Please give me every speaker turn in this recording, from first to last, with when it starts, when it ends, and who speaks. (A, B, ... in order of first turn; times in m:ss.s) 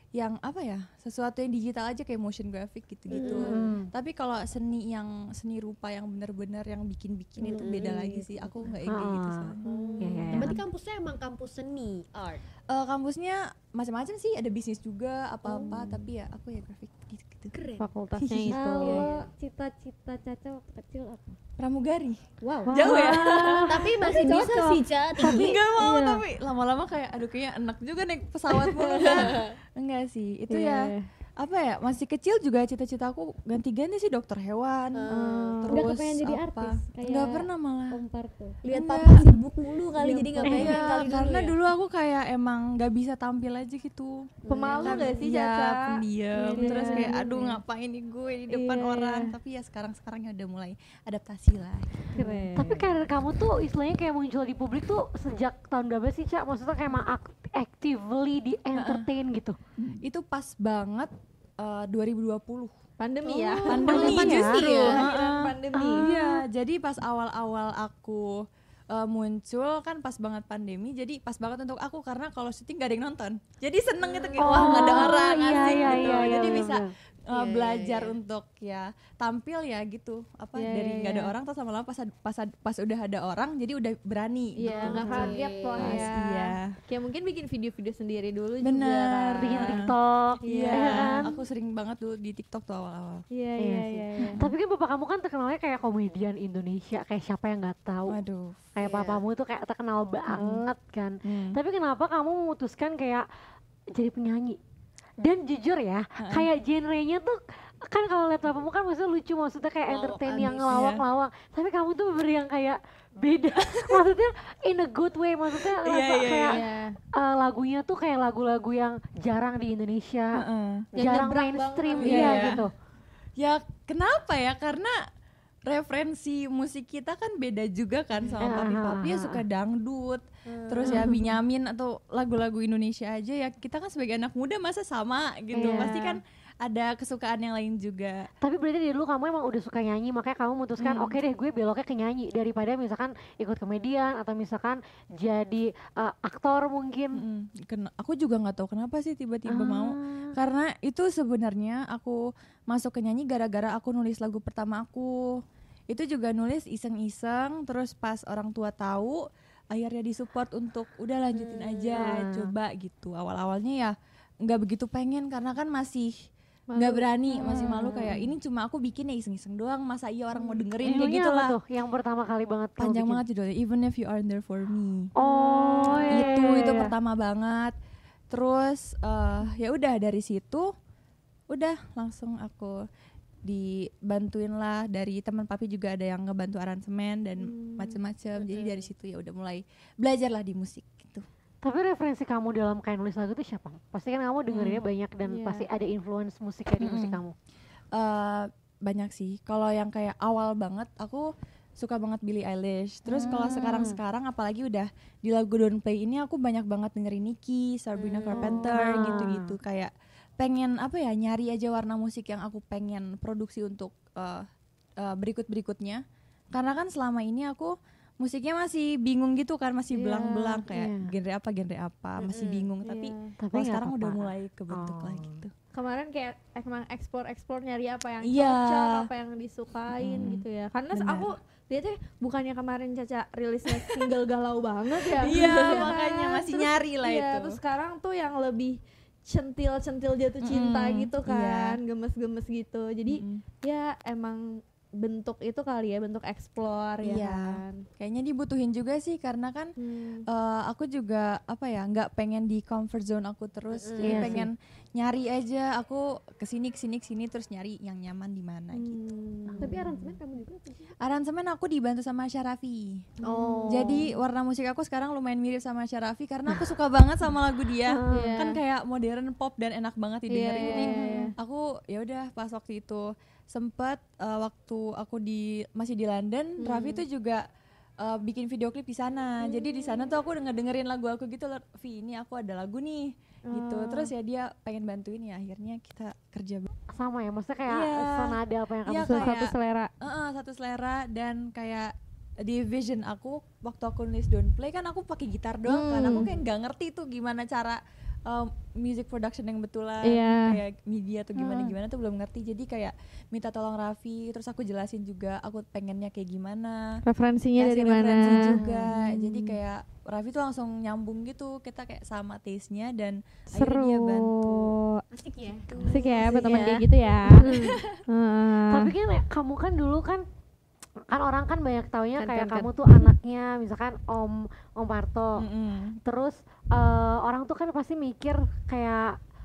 0:00.1-0:09.7 A
0:03.1-0:03.7 B
0:03.1-0:03.4 C
0:03.3-0:03.9 D
0:07.4-0:08.1 B
0:07.4-0:08.5 C
0:08.8-0:10.6 D
0:09.6-0:12.4 B
0:09.7-0:10.2 C
0:12.7-0:17.5 A
0:15.5-0:15.9 C
0:15.6-0:15.9 B
0:17.5-0:17.9 B
0:17.8-0:19.0 E
0:18.2-0:18.6 A
0:18.5-0:21.4 C
0:18.8-0:19.3 B
0:21.6-0:24.1 A
0:22.4-0:25.7 B
0:22.7-0:23.6 D
0:23.0-0:24.8 C
0:25.2-0:35.1 A
0:25.7-0:26.2 C
0:28.8-0:29.5 B
0:30.5-0:31.0 E
0:34.9-0:35.7 B
0:35.1-0:35.8 E
0:35.6-0:38.0 A
0:35.7-0:38.6 C
0:38.6-0:41.6 B
0:38.7-0:39.3 A
0:40.0-0:40.9 C
0:40.4-0:52.1 A
0:44.5-0:45.0 B
0:44.5-0:47.6 E
0:44.6-0:44.9 C
0:48.5-0:49.3 E
0:52.1-0:52.9 E
0:52.2-0:59.6 D
0:58.7-0:59.1 A
0:59.8-1:02.7 A
1:03.0-1:06.1 E
1:03.5-1:05.1 B
1:03.7-1:26.7 A
1:03.8-1:04.6 D
1:05.7-1:06.3 D
1:14.0-1:14.9 B
1:14.4-1:16.9 D
1:17.3-1:18.2 B
1:20.5-1:21.3 E
1:24.6-1:29.8 E
1:24.7-1:26.1 B
1:24.9-1:25.3 D
1:28.6-1:29.9 A
1:29.4-1:31.3 D
1:30.4-1:31.3 E
1:30.4-1:33.2 A
1:33.3-1:34.4 E
1:33.6-1:38.2 D
1:34.2-1:34.4 A
1:38.1-1:38.6 A
1:38.7-1:43.2 D
1:38.8-1:39.2 B
1:40.3-1:40.6 A
1:41.2-1:41.6 A
1:43.9-1:44.6 D
1:45.2-1:56.6 D
1:46.2-1:46.5 A
1:49.9-1:50.7 B
1:50.7-1:51.0 A
1:53.6-1:54.0 A
1:55.5-1:56.6 A
1:56.5-1:56.9 E
1:57.2-2:00.4 D
2:00.4-2:00.9 A
2:00.9-2:02.7 D
2:01.0-2:02.6 E
2:02.0-2:02.6 A
2:03.4-2:04.9 A
2:05.7-2:18.3 A
2:08.4-2:09.4 D
2:10.6-2:11.3 D
2:15.5-2:16.1 D
2:18.4-2:27.2 D
2:20.8-2:21.2 A
2:27.1-2:35.3 A
2:29.5-2:30.3 D
2:35.9-2:39.2 A
2:39.7-2:46.1 A
2:41.9-2:42.5 D
2:46.7-2:48.1 E
2:46.8-2:51.6 A
2:47.4-2:48.2 D
2:50.8-2:53.2 D
2:52.8-2:55.1 A
2:55.2-2:56.9 D
2:55.2-2:56.7 E
2:56.1-2:57.7 A
2:58.3-3:00.7 A
3:01.5-3:02.8 A
3:03.4-3:11.2 A
3:07.4-3:08.0 E
3:08.4-3:08.9 B
3:11.6-3:17.3 D
3:14.5-3:14.8 A
3:15.2-3:15.7 E
3:16.8-3:17.2 A
3:17.9-3:34.4 A
3:23.0-3:24.0 D
3:27.9-3:28.6 B
3:28.3-3:29.6 D
3:35.0-3:45.5 A
3:39.9-3:40.6 E
3:40.7-3:41.1 D
3:42.2-3:42.7 B
3:42.8-3:43.3 E
3:43.4-3:45.4 D
3:45.7-4:07.8 E
3:48.2-3:49.1 A
3:49.9-3:51.3 A
3:53.7-3:54.1 A
3:55.1-3:57.6 A
3:55.3-3:55.9 B
4:00.4-4:01.8 A
4:03.1-4:03.4 A
4:07.0-4:09.7 A
4:09.8-4:10.2 E
4:10.2-4:19.0 A
4:13.7-4:14.4 B
4:14.0-4:14.5 D
4:18.7-4:19.8 E
4:19.5-4:19.8 D
4:19.6-4:20.8 C
4:19.6-4:20.2 B
4:21.0-4:23.0 A
4:23.2-4:23.9 B
4:23.2-4:24.0 D
4:23.7-4:37.4 A
4:27.9-4:28.4 D
4:28.1-4:28.6 E
4:30.3-4:31.3 E
4:30.7-4:31.3 D
4:36.6-4:37.0 E
4:38.0-4:46.7 A
4:43.5-4:44.1 E
4:46.9-4:49.3 D
4:47.7-5:07.0 A
4:49.0-4:49.9 E
4:55.7-4:56.3 E
5:00.0-5:00.6 E
5:07.0-5:09.6 E
5:07.6-5:14.7 A
5:13.5-5:15.0 E
5:15.1-5:16.8 B
5:15.7-5:16.6 A
5:15.9-5:17.5 E
5:17.4-5:18.0 A
5:18.1-5:18.9 E
5:18.7-5:20.2 D
5:21.1-5:25.4 D
5:25.4-5:26.0 A
5:26.0-5:29.1 D